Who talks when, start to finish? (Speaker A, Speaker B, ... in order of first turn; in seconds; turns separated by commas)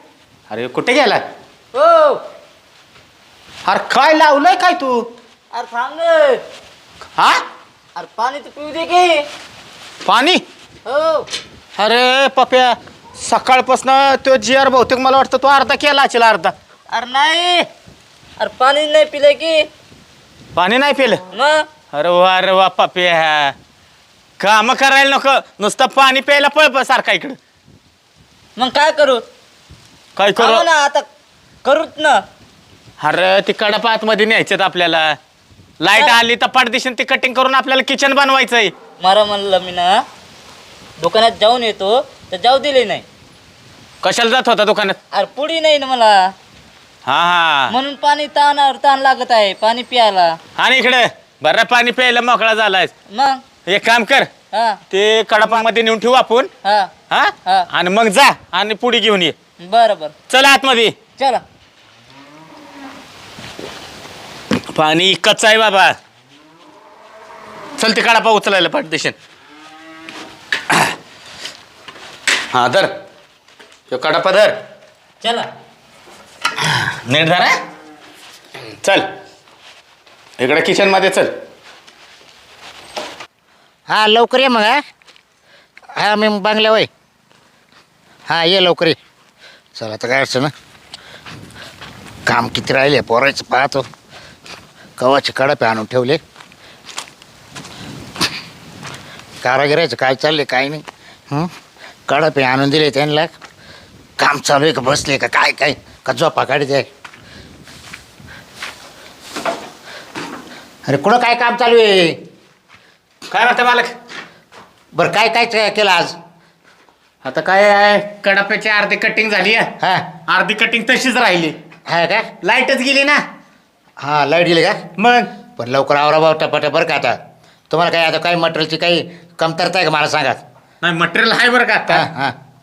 Speaker A: 0.5-1.2, Speaker B: 1.7-2.2, Speaker A: 3.6-5.1, Speaker B: 5.5-6.4, Speaker A: 7.2-7.4, Speaker B: 7.9-9.2, Speaker A: 10.0-10.4, Speaker B: 10.8-11.3, Speaker A: 11.8-16.5, Speaker B: 16.9-17.7, Speaker B: 18.4-19.7, Speaker A: 20.6-21.2, Speaker B: 21.3-21.6, Speaker A: 21.9-23.5, Speaker A: 24.4-27.4, Speaker B: 28.6-29.2, Speaker A: 30.1-30.7, Speaker B: 30.4-31.1, Speaker B: 31.6-32.2, Speaker A: 33.0-35.2, Speaker A: 35.8-38.7, Speaker B: 35.9-36.2, Speaker B: 39.0-40.0, Speaker B: 41.0-43.0, Speaker A: 44.0-45.0, Speaker B: 45.1-46.3, Speaker A: 47.0-47.7, Speaker B: 47.7-50.4, Speaker A: 50.5-52.9, Speaker B: 53.1-53.4, Speaker A: 53.6-54.3, Speaker B: 54.5-54.8, Speaker A: 54.9-56.5, Speaker B: 56.6-56.9, Speaker A: 57.1-59.4, Speaker B: 59.6-60.1, Speaker A: 60.3-61.0, Speaker B: 61.2-61.4, Speaker A: 64.7-66.0, Speaker A: 67.8-69.2, Speaker A: 72.5-72.9, Speaker A: 73.9-74.6, Speaker B: 75.2-75.5, Speaker A: 76.6-77.6, Speaker A: 78.8-79.1, Speaker A: 80.4-81.3, Speaker C: 83.9-84.8, Speaker C: 86.0-86.9, Speaker C: 88.3-89.0, Speaker C: 89.8-90.5, Speaker C: 92.2-93.8, Speaker C: 95.0-96.2, Speaker C: 99.4-101.5, Speaker C: 102.1-103.3, Speaker C: 104.2-106.9, Speaker C: 110.8-112.2, Speaker A: 113.3-113.9, Speaker C: 114.9-116.2, Speaker A: 117.2-119.7, Speaker C: 119.8-120.1, Speaker A: 120.3-121.6, Speaker C: 121.9-122.3, Speaker A: 122.4-123.2, Speaker C: 124.0-124.8, Speaker A: 125.0-125.3, Speaker C: 125.6-127.2, Speaker C: 127.7-130.4, Speaker A: 130.8-132.1, Speaker C: 131.9-132.3